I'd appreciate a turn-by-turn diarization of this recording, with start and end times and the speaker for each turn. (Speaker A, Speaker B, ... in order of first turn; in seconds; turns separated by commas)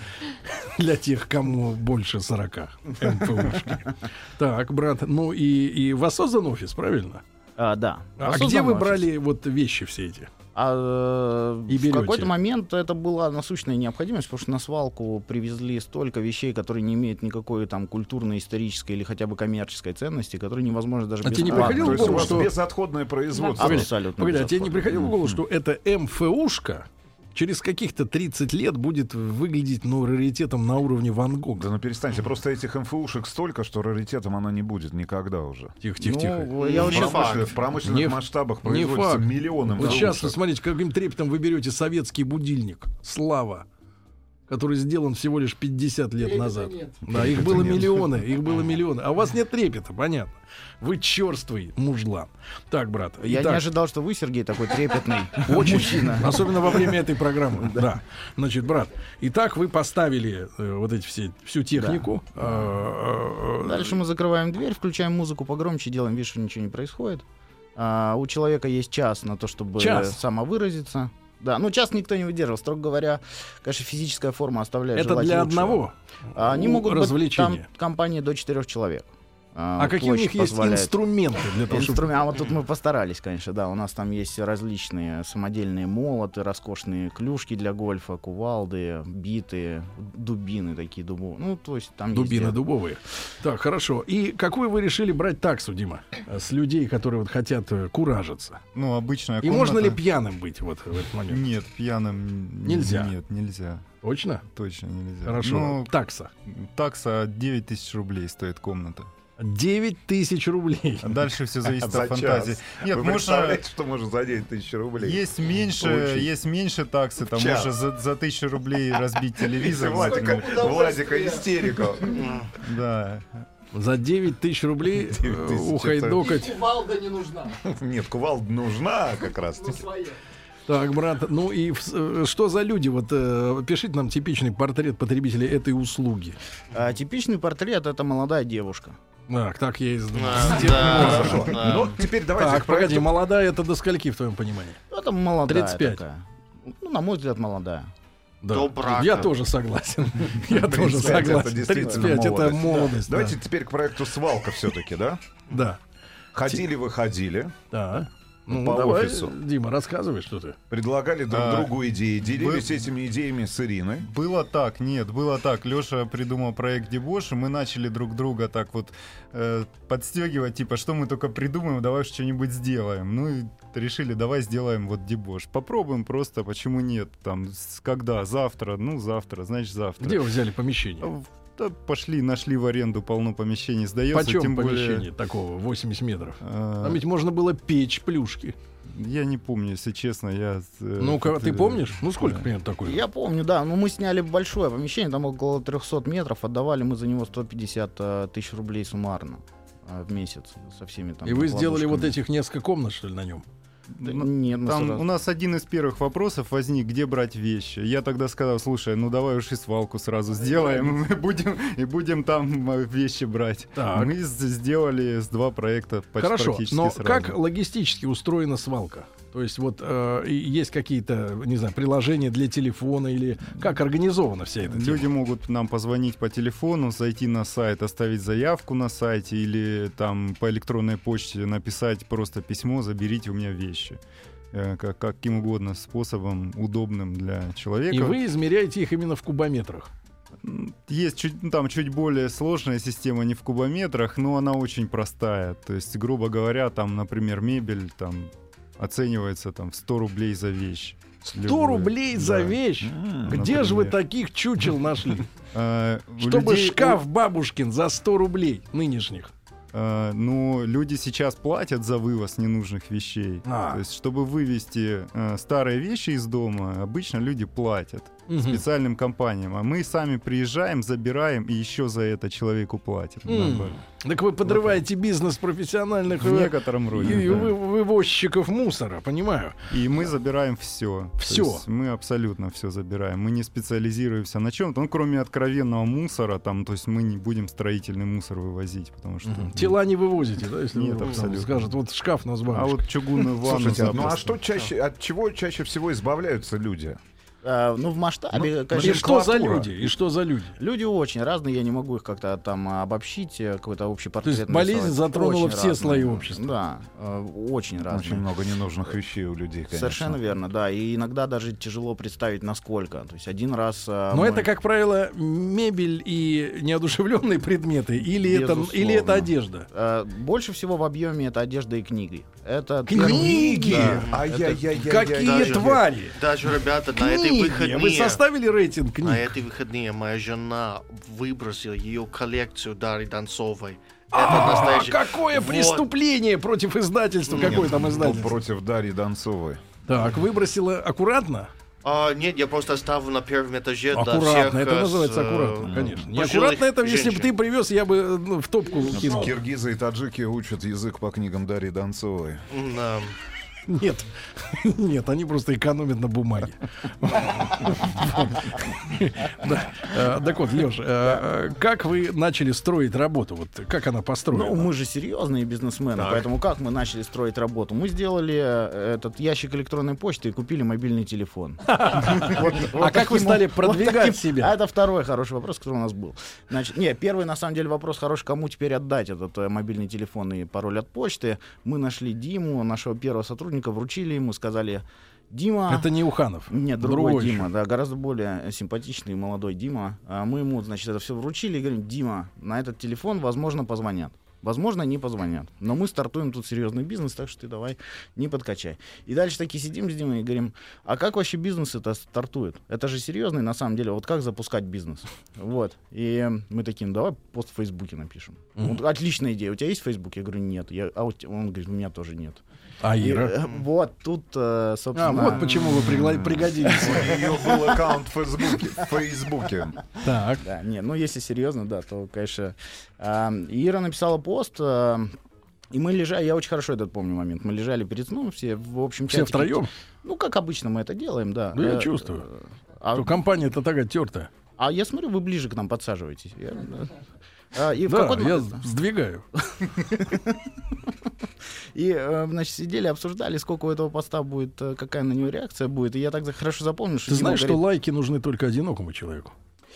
Speaker A: 0.5-7.2, Speaker B: 7.6-9.1, Speaker A: 8.2-10.3, Speaker B: 10.6-22.5, Speaker A: 11.7-12.3, Speaker A: 21.2-22.5, Speaker C: 21.4-24.0, Speaker B: 23.6-24.9, Speaker A: 23.6-31.7, Speaker C: 24.9-25.4, Speaker C: 31.6-35.8, Speaker A: 35.8-36.6, Speaker B: 36.0-37.5, Speaker D: 36.6-37.6, Speaker C: 36.6-40.4, Speaker A: 37.8-43.7, Speaker B: 39.8-40.1, Speaker A: 44.5-53.7, Speaker C: 47.1-48.1, Speaker B: 53.2-56.9, Speaker A: 55.4-64.0, Speaker B: 57.6-57.9, Speaker B: 61.8-62.5, Speaker B: 63.6-67.2, Speaker B: 67.8-75.8, Speaker A: 69.8-70.2, Speaker A: 75.0-77.7, Speaker B: 76.3-81.0, Speaker A: 79.8-82.2, Speaker B: 81.7-92.6, Speaker A: 92.1-98.6, Speaker E: 98.8-100.0, Speaker A: 99.4-101.5, Speaker E: 101.3-103.9, Speaker A: 102.7-103.1, Speaker A: 104.0-104.4, Speaker E: 104.5-105.9, Speaker A: 105.2-106.3, Speaker E: 106.5-109.1, Speaker A: 109.4-111.2, Speaker E: 111.0-113.6, Speaker C: 111.7-116.3, Speaker E: 115.0-120.8, Speaker C: 117.2-117.8, Speaker C: 119.4-122.4, Speaker D: 122.1-122.5, Speaker E: 122.6-123.4, Speaker A: 123.7-127.2, Speaker C: 125.0-126.6, Speaker C: 127.4-130.1, Speaker A: 130.7-136.4, Speaker B: 136.7-139.0, Speaker A: 139.3-141.8, Speaker D: 140.1-142.0, Speaker C: 140.7-143.1, Speaker A: 142.3-144.8, Speaker B: 144.9-147.9, Speaker A: 145.5-146.0, Speaker A: 148.4-153.4, Speaker D: 148.5-149.3, Speaker C: 150.5-155.2, Speaker A: 155.5-155.8, Speaker C: 156.3-157.6, Speaker A: 157.7-160.6, Speaker C: 158.5-159.3, Speaker C: 160.7-164.1, Speaker E: 161.3-162.9, Speaker E: 164.0-180.3, Speaker A: 180.0-181.1, Speaker E: 181.0-185.1, Speaker A: 184.1-188.6, Speaker E: 186.4-187.0, Speaker E: 188.9-192.5, Speaker A: 191.0-193.0, Speaker B: 192.8-202.2, Speaker A: 201.2-203.4, Speaker E: 203.9-217.4, Speaker B: 204.0-205.1, Speaker A: 213.8-214.2, Speaker A: 216.2-225.1, Speaker E: 224.6-234.0, Speaker E: 234.5-238.2, Speaker A: 237.9-239.9, Speaker E: 240.4-252.6, Speaker A: 251.2-255.3, Speaker C: 252.8-253.4, Speaker E: 253.3-254.0, Speaker E: 255.5-257.0, Speaker A: 256.2-259.3, Speaker E: 259.7-273.8, Speaker A: 263.4-263.8, Speaker A: 268.3-268.6, Speaker A: 273.3-279.6, Speaker E: 274.4-274.8, Speaker E: 276.2-277.6, Speaker E: 279.7-289.8, Speaker A: 281.2-281.6, Speaker A: 289.2-293.2, Speaker E: 290.7-291.7, Speaker E: 292.5-294.4, Speaker C: 293.4-297.0, Speaker B: 297.4-299.9, Speaker C: 298.4-299.7, Speaker A: 298.7-300.6, Speaker B: 300.6-308.2, Speaker A: 304.2-306.5, Speaker C: 307.9-310.2, Speaker B: 309.7-314.5, Speaker A: 314.1-319.7, Speaker B: 318.2-324.4, Speaker A: 322.9-326.2, Speaker C: 322.9-325.9, Speaker D: 323.9-324.3, Speaker D: 325.2-325.6, Speaker D: 326.1-328.2, Speaker A: 327.0-329.4, Speaker D: 329.0-335.9, Speaker A: 334.1-338.4, Speaker D: 337.3-337.8, Speaker C: 337.3-339.6, Speaker A: 339.9-341.5, Speaker D: 341.8-347.3, Speaker A: 343.9-349.4, Speaker C: 345.6-346.1, Speaker C: 348.9-352.4, Speaker D: 352.5-353.2, Speaker A: 353.7-364.7, Speaker B: 364.3-385.9, Speaker A: 371.7-374.6, Speaker A: 385.7-387.5, Speaker B: 386.5-412.4, Speaker A: 412.8-413.4, Speaker B: 413.0-415.8, Speaker A: 414.9-417.3, Speaker C: 415.6-419.8, Speaker B: 417.1-417.7, Speaker A: 420.0-420.4, Speaker B: 420.4-425.1, Speaker B: 425.7-433.2, Speaker A: 429.1-429.7, Speaker A: 431.6-432.3, Speaker A: 432.9-434.3, Speaker B: 434.6-437.0, Speaker B: 437.5-438.6, Speaker A: 437.9-439.3, Speaker B: 439.7-440.5, Speaker B: 441.8-447.6, Speaker A: 447.1-449.3